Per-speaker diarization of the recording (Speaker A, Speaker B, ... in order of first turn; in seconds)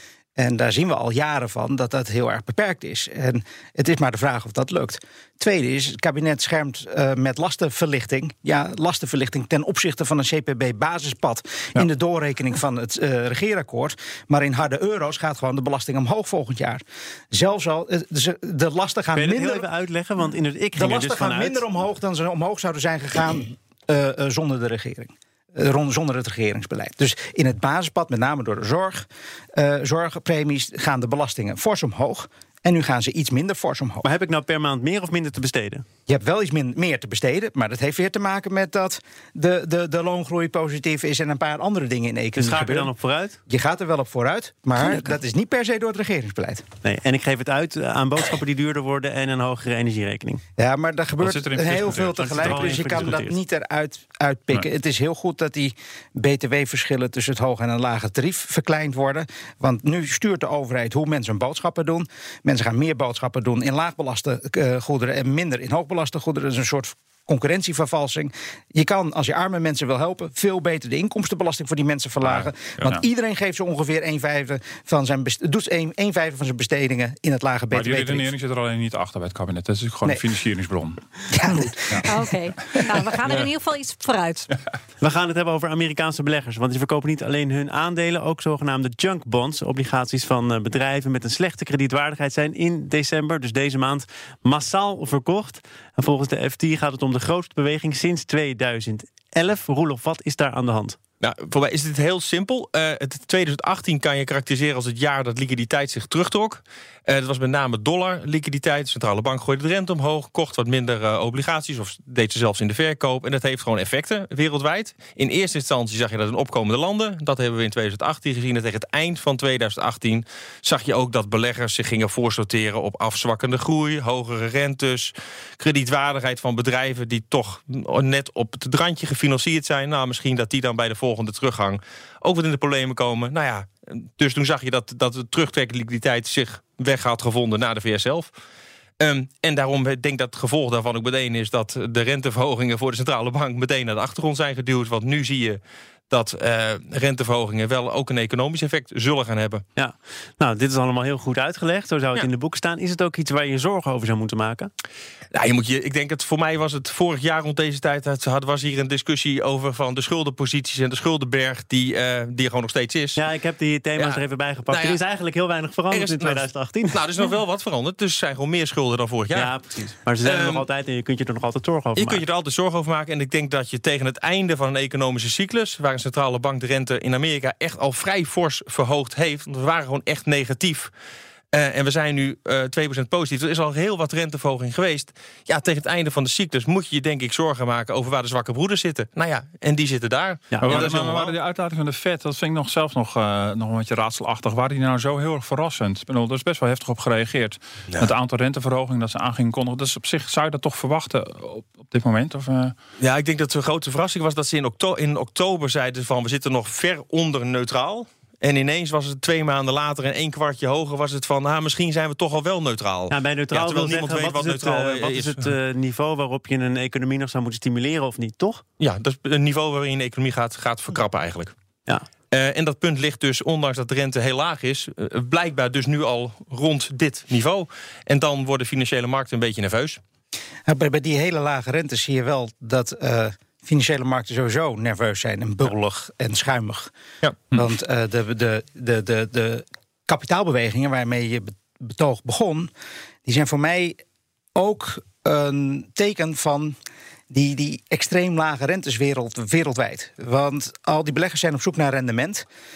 Speaker A: 0.4-19.6, 20.8-34.0, 36.1-42.9, 43.5-46.6, 50.6-78.3, 81.3-82.9, 230.7-236.9, 237.5-242.7, 243.2-244.0, 244.5-246.8, 247.3-252.4
Speaker B: 19.1-21.6, 34.0-35.8, 42.4-43.4, 46.8-50.4, 52.0-53.4, 85.0-101.0, 149.8-154.7, 163.2-167.0, 169.3-172.2, 190.5-190.9, 213.1-218.6
Speaker C: 51.2-52.9, 72.2-73.0, 77.7-81.0, 82.7-83.5, 190.6-202.7
Speaker D: 82.0-84.5
Speaker E: 101.2-138.3, 139.0-149.6, 155.3-163.2, 164.0-165.0, 165.9-169.5, 170.2-170.6, 171.9-180.9, 181.5-191.3, 203.0-215.4, 218.8-221.5, 222.3-230.0